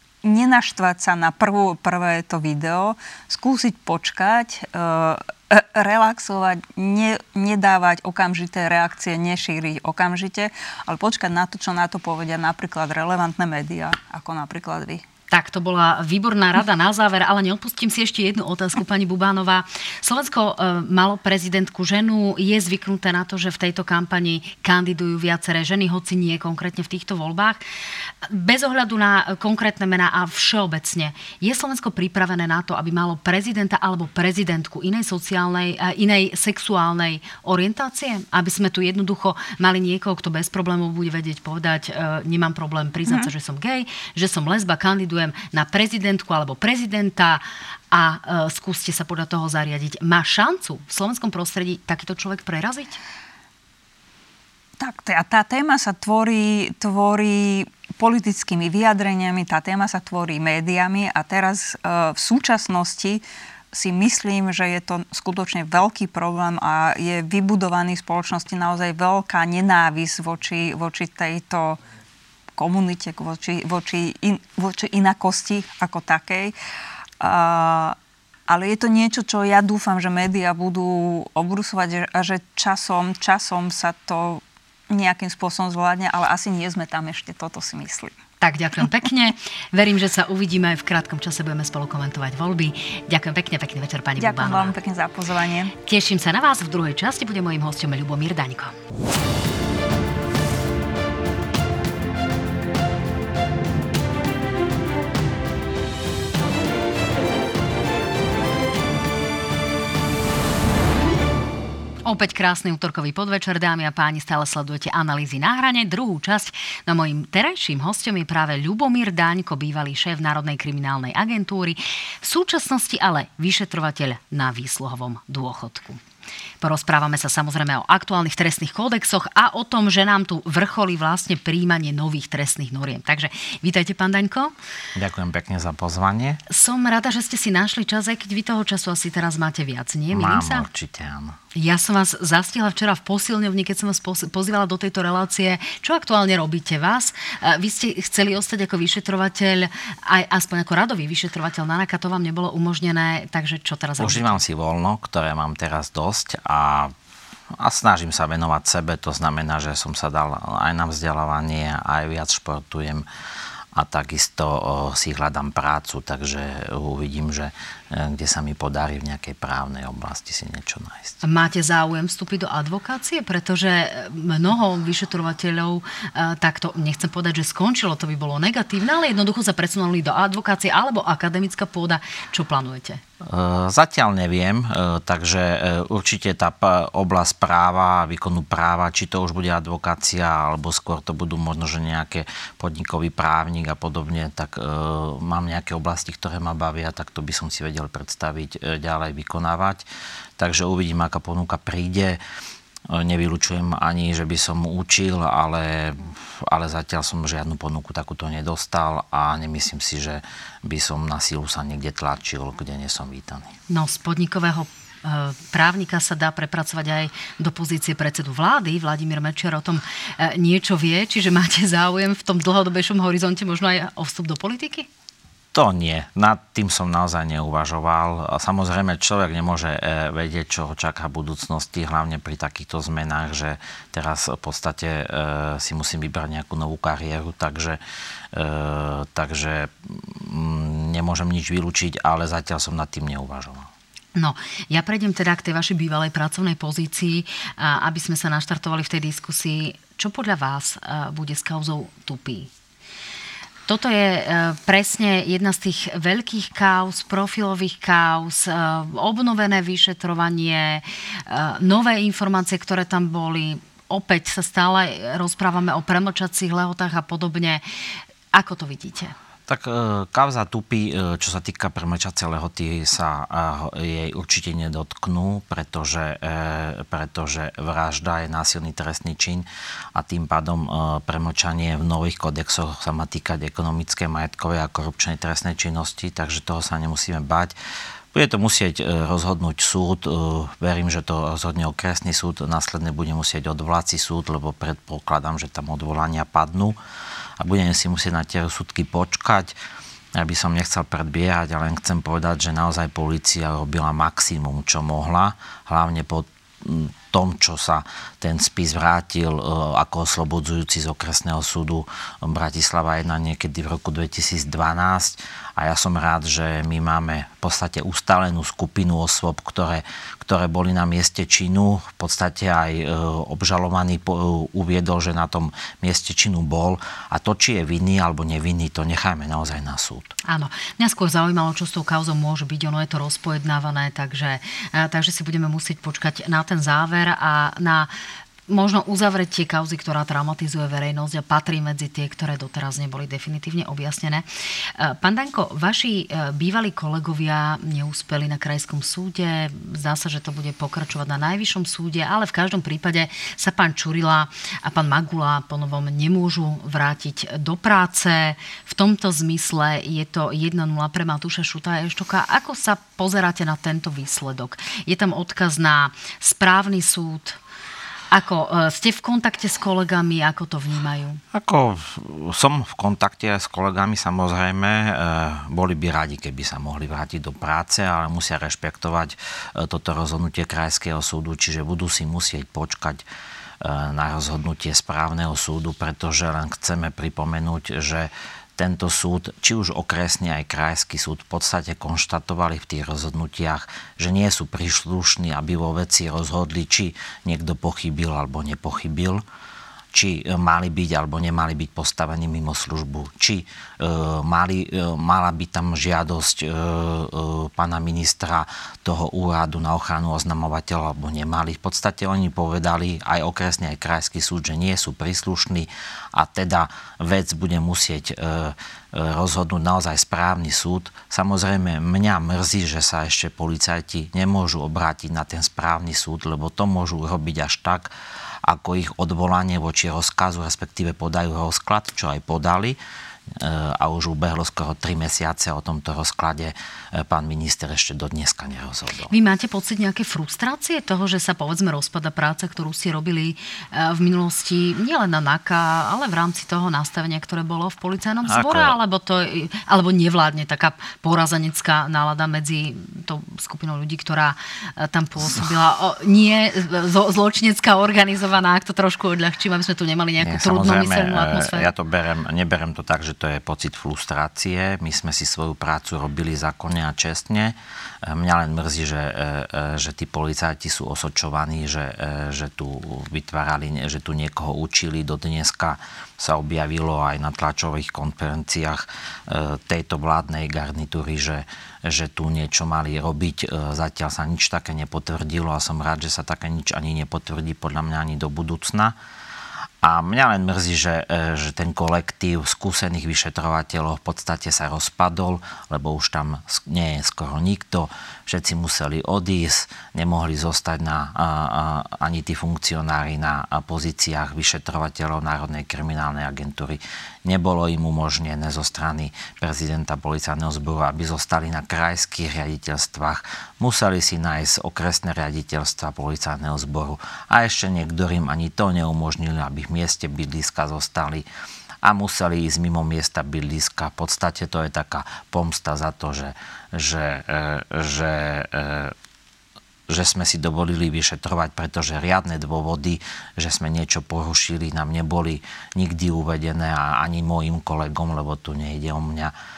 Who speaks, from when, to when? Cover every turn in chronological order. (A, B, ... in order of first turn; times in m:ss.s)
0:00.2-0:15.0 A
0:15.3-0:27.6 B
0:28.2-0:53.0 B
0:43.0-0:43.3 A
0:54.8-1:11.8 A
1:12.6-1:16.5 A
1:17.2-1:18.0 A
1:18.5-1:28.1 A
1:28.4-1:34.7 B
1:34.2-1:35.7 A
1:35.8-1:38.7 B
1:52.0-2:06.0 B
2:06.6-2:14.5 B
2:14.9-2:16.4 C
2:16.5-2:20.6 B
2:20.1-2:21.4 C
2:21.5-2:34.5 B
2:34.0-2:36.9 C
2:37.6-2:43.0 C
2:43.7-2:51.2 C
2:51.2-3:03.0 B
3:03.2-3:19.8 C
3:20.4-3:22.2 C
3:22.9-3:33.5 C
3:33.7-3:44.9 B
3:45.5-3:57.8 C
3:58.3-4:03.7 C
4:04.2-4:12.5 B
4:13.7-4:27.6 B
4:28.3-4:29.1 B
4:29.5-4:47.5 C
4:48.1-4:56.8 C
4:57.4-4:59.5 C
5:00.1-5:30.1 C
5:30.2-5:37.9 B
5:38.5-6:07.4 B
6:08.1-6:11.2 B
6:11.3-6:23.0 C
6:23.6-6:39.2 C
6:39.9-7:07.9 C
7:08.4-7:12.8 C
7:13.4-7:19.1 C
7:19.1-7:41.7 B
7:28.3-7:28.7 C
7:40.2-7:47.5 C
7:48.0-8:08.9 C
8:09.8-8:41.2 C
8:41.8-8:48.9 C
8:49.9-8:59.3 C